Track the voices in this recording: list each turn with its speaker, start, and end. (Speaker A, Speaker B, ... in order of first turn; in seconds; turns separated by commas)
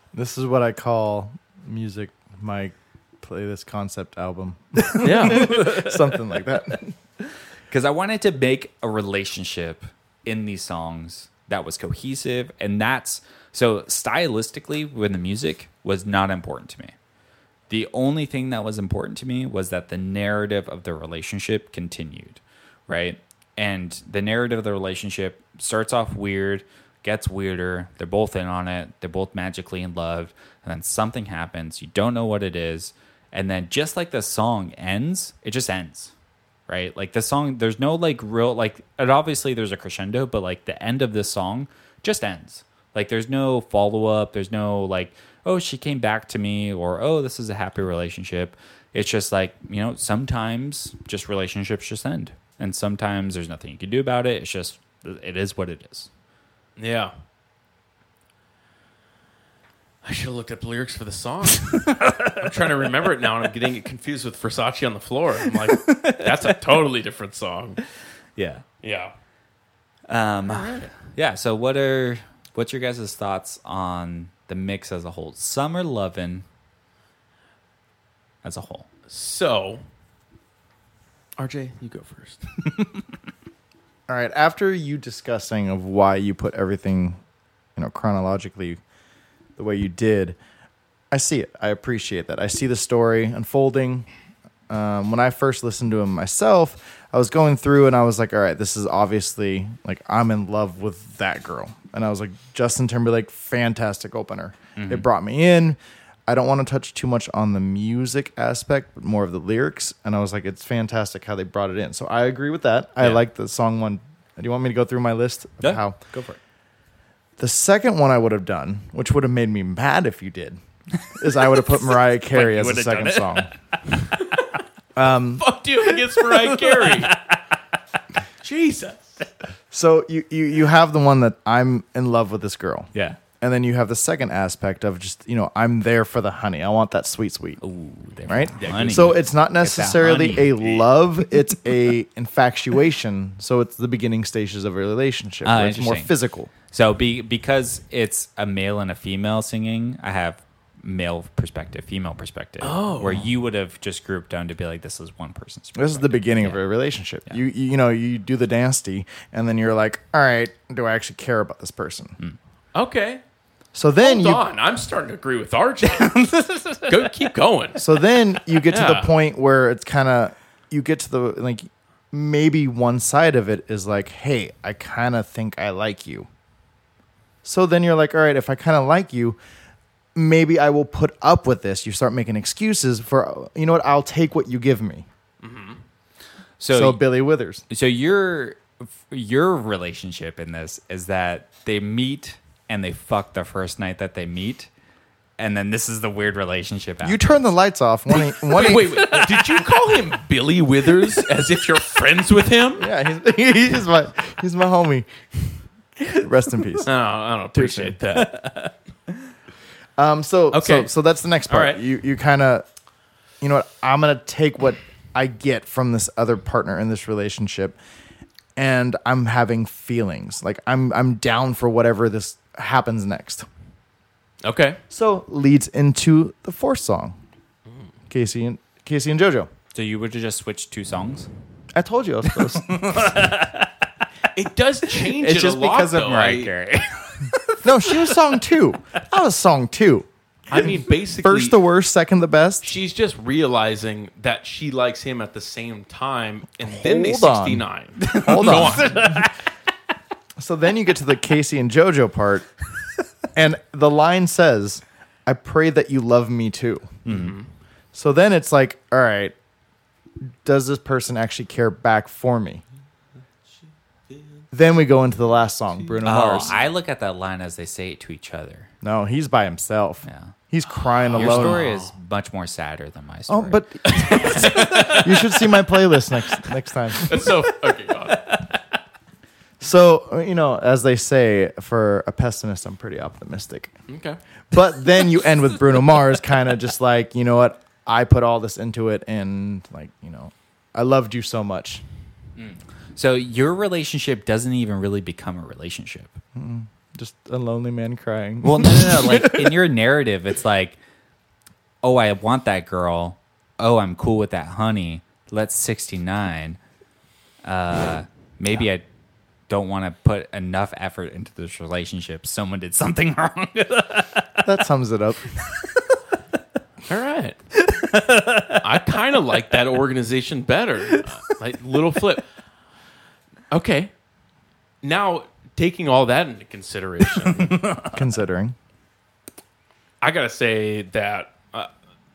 Speaker A: 0.1-6.9, Speaker B: 4.9-6.0, Speaker C: 5.0-5.7, Speaker B: 7.7-16.9, Speaker B: 17.7-36.1, Speaker B: 36.7-56.1, Speaker C: 56.8-57.1, Speaker C: 60.0-67.8, Speaker B: 61.7-63.1, Speaker B: 65.5-66.8, Speaker B: 68.4-68.7, Speaker C: 68.8-69.1, Speaker B: 70.1-76.5, Speaker C: 70.5-70.9, Speaker B: 78.4-78.9, Speaker C: 79.1-79.8, Speaker C: 81.4-82.5, Speaker A: 84.1-87.2, Speaker A: 87.8-88.8, Speaker A: 89.6-90.4, Speaker A: 91.1-94.1, Speaker A: 94.7-116.0, Speaker B: 104.8-105.1, Speaker B: 115.6-116.4, Speaker A: 117.4-123.5, Speaker C: 122.3-123.1, Speaker B: 122.4-123.4, Speaker C: 124.2-124.5, Speaker A: 125.0-125.5, Speaker C: 125.4-127.2, Speaker B: 126.2-127.4, Speaker C: 128.4-129.3, Speaker A: 129.7-137.6, Speaker B: 132.9-133.2, Speaker B: 137.6-140.8, Speaker A: 138.3-146.5, Speaker C: 138.6-139.2, Speaker B: 145.4-146.1, Speaker B: 146.7-156.6, Speaker C: 152.6-153.3, Speaker A: 155.8-162.2, Speaker C: 162.8-163.2, Speaker A: 163.7-164.4, Speaker C: 164.0-166.2, Speaker B: 165.8-167.3, Speaker C: 166.9-167.8, Speaker A: 167.8-176.3, Speaker C: 168.7-169.1, Speaker A: 177.4-179.4, Speaker A: 180.2-185.1, Speaker C: 185.4-185.8, Speaker B: 186.6-187.0, Speaker A: 186.7-187.6, Speaker B: 187.7-194.7, Speaker B: 195.4-197.2, Speaker A: 197.0-199.2, Speaker C: 198.2-202.9, Speaker B: 198.7-200.0, Speaker A: 202.8-206.9, Speaker C: 206.8-208.5, Speaker A: 207.5-208.0, Speaker B: 208.2-208.7, Speaker A: 210.0-212.7, Speaker C: 210.5-210.9, Speaker C: 211.5-211.8, Speaker A: 213.4-217.8, Speaker A: 218.6-223.5, Speaker C: 224.4-224.8, Speaker A: 224.9-227.2, Speaker A: 228.1-229.5, Speaker B: 229.7-231.3, Speaker A: 231.7-233.2, Speaker B: 232.3-234.1, Speaker C: 234.3-236.5, Speaker B: 234.9-238.2, Speaker A: 237.6-242.8, Speaker C: 240.5-241.6, Speaker C: 242.6-249.2, Speaker A: 246.6-249.3, Speaker B: 248.0-249.3, Speaker A: 250.4-252.5, Speaker A: 253.3-257.0, Speaker B: 257.1-257.4, Speaker C: 257.1-257.5, Speaker A: 257.9-259.3, Speaker A: 260.4-262.6, Speaker A: 264.5-266.6, Speaker C: 265.8-266.4, Speaker B: 266.0-268.7, Speaker A: 268.8-271.6, Speaker B: 270.1-270.3, Speaker C: 270.8-271.9, Speaker B: 271.1-275.0, Speaker A: 273.3-277.4, Speaker C: 274.0-275.5, Speaker C: 277.0-278.3, Speaker B: 278.1-278.5, Speaker A: 279.6-283.7, Speaker C: 283.9-284.2, Speaker A: 284.5-291.8, Speaker B: 292.4-296.2, Speaker A: 296.4-299.6, Speaker B: 298.4-300.8, Speaker B: 301.8-306.6, Speaker B: 307.4-308.9, Speaker B: 309.5-314.5, Speaker A: 314.4-315.4, Speaker B: 315.4-316.0, Speaker C: 316.9-317.4, Speaker B: 317.6-318.7, Speaker C: 318.6-322.3, Speaker B: 320.9-321.3, Speaker C: 323.5-323.9, Speaker C: 324.8-327.6, Speaker B: 327.4-328.0, Speaker A: 327.9-328.6, Speaker C: 330.0-331.7